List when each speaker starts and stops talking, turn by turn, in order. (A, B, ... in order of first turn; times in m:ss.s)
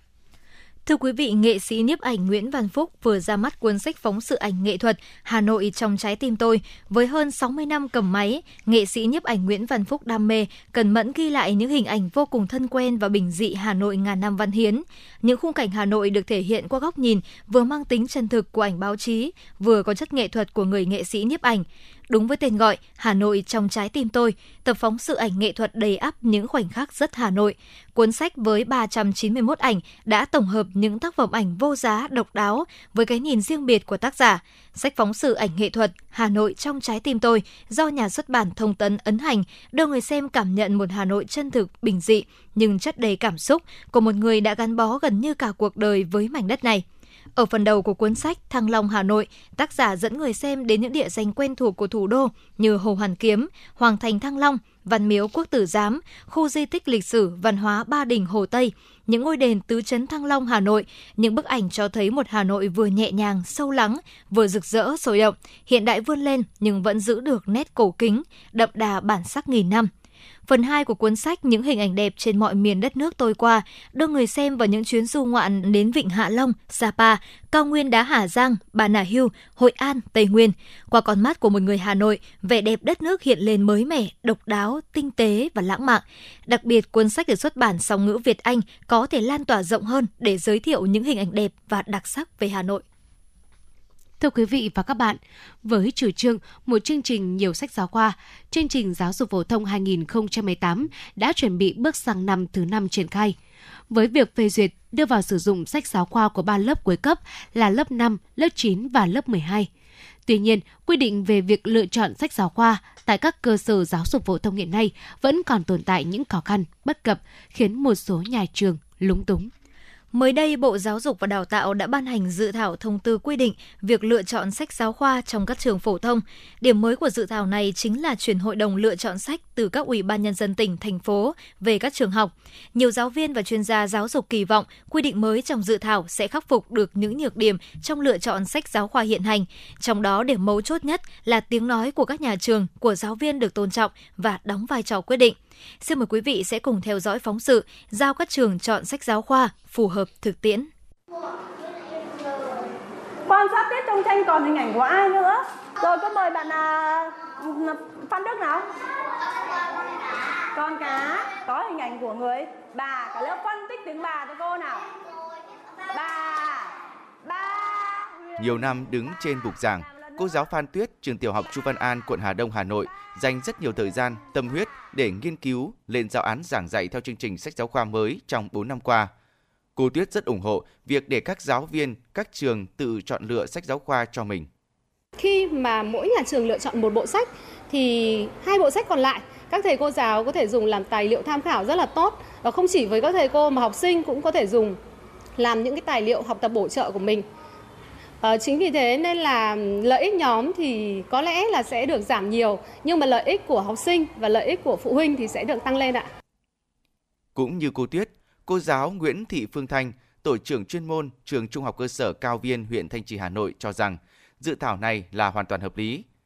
0:00.9-0:46.8 A
0:47.4-1:09.9 A
1:10.5-1:32.8 A
1:34.2-1:43.4 B
1:43.9-1:49.7 B
1:50.3-1:59.5 B
2:00.1-2:30.7 A
2:33.3-2:38.7 C
2:40.5-2:44.9 C
2:45.9-2:46.7 C
2:47.2-2:48.4 C
2:48.4-2:59.1 D
2:49.9-2:50.1 C
2:59.8-3:04.5 D
3:05.2-3:14.8 E
3:15.4-3:17.3 E
3:18.2-3:26.1 E
3:27.4-3:36.0 D